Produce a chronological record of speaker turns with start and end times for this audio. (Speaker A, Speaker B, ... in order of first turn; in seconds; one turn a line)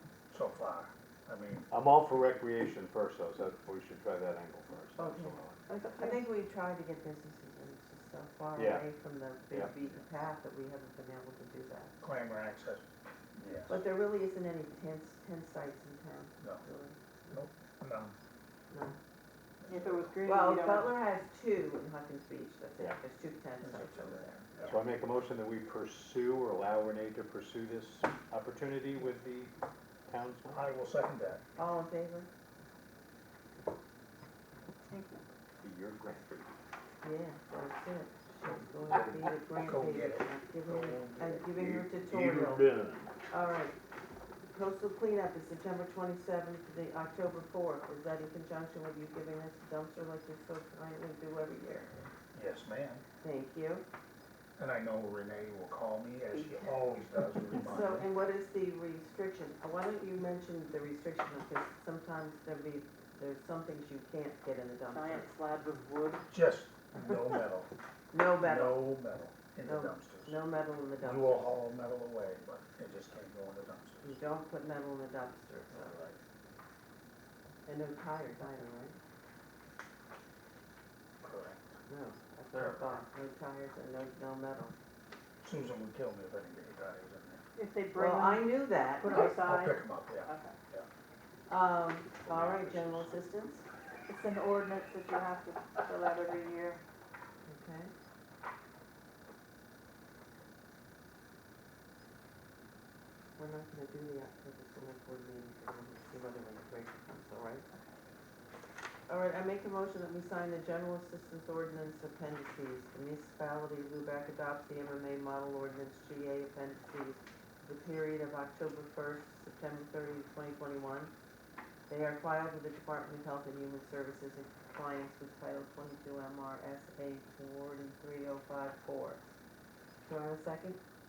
Speaker A: 0.3-1.7
Speaker B: 1.7-5.6
Speaker C: 5.0-5.4
Speaker D: 5.7-6.3
Speaker C: 6.0-11.9
Speaker B: 8.6-8.8
Speaker A: 12.0-12.8
Speaker A: 13.4-13.8
Speaker C: 13.7-17.0
Speaker A: 17.3-18.1
Speaker C: 18.7-19.0
Speaker A: 19.6-20.1
Speaker D: 19.7-20.9
Speaker C: 20.2-24.4
Speaker A: 23.6-24.8
Speaker B: 24.6-29.5
Speaker B: 30.1-30.6
Speaker A: 30.5-31.4
Speaker C: 31.6-32.3
Speaker D: 34.9-35.2
Speaker B: 35.6-36.5
Speaker C: 37.0-42.7
Speaker A: 39.5-41.5
Speaker B: 41.5-43.1
Speaker C: 43.3-43.8
Speaker C: 44.5-52.0
Speaker A: 52.3-53.0
Speaker C: 53.2-53.9
Speaker A: 54.6-58.1
Speaker D: 56.3-56.7
Speaker C: 57.5-65.3
Speaker D: 64.9-66.3
Speaker A: 66.3-67.7
Speaker C: 68.1-69.0
Speaker A: 68.3-70.4
Speaker C: 69.7-71.6
Speaker A: 71.0-74.2
Speaker C: 74.0-76.2
Speaker A: 75.8-76.1
Speaker C: 77.7-79.0
Speaker A: 81.2-81.7
Speaker C: 81.9-84.7
Speaker A: 85.4-87.4
Speaker D: 87.5-90.6
Speaker C: 87.9-89.4
Speaker A: 89.0-90.9
Speaker C: 91.5-93.7
Speaker B: 92.2-93.1
Speaker D: 94.1-96.8
Speaker C: 97.5-97.9
Speaker C: 103.4-107.7
Speaker C: 109.1-121.1
Speaker C: 121.9-129.2
Speaker C: 130.0-130.8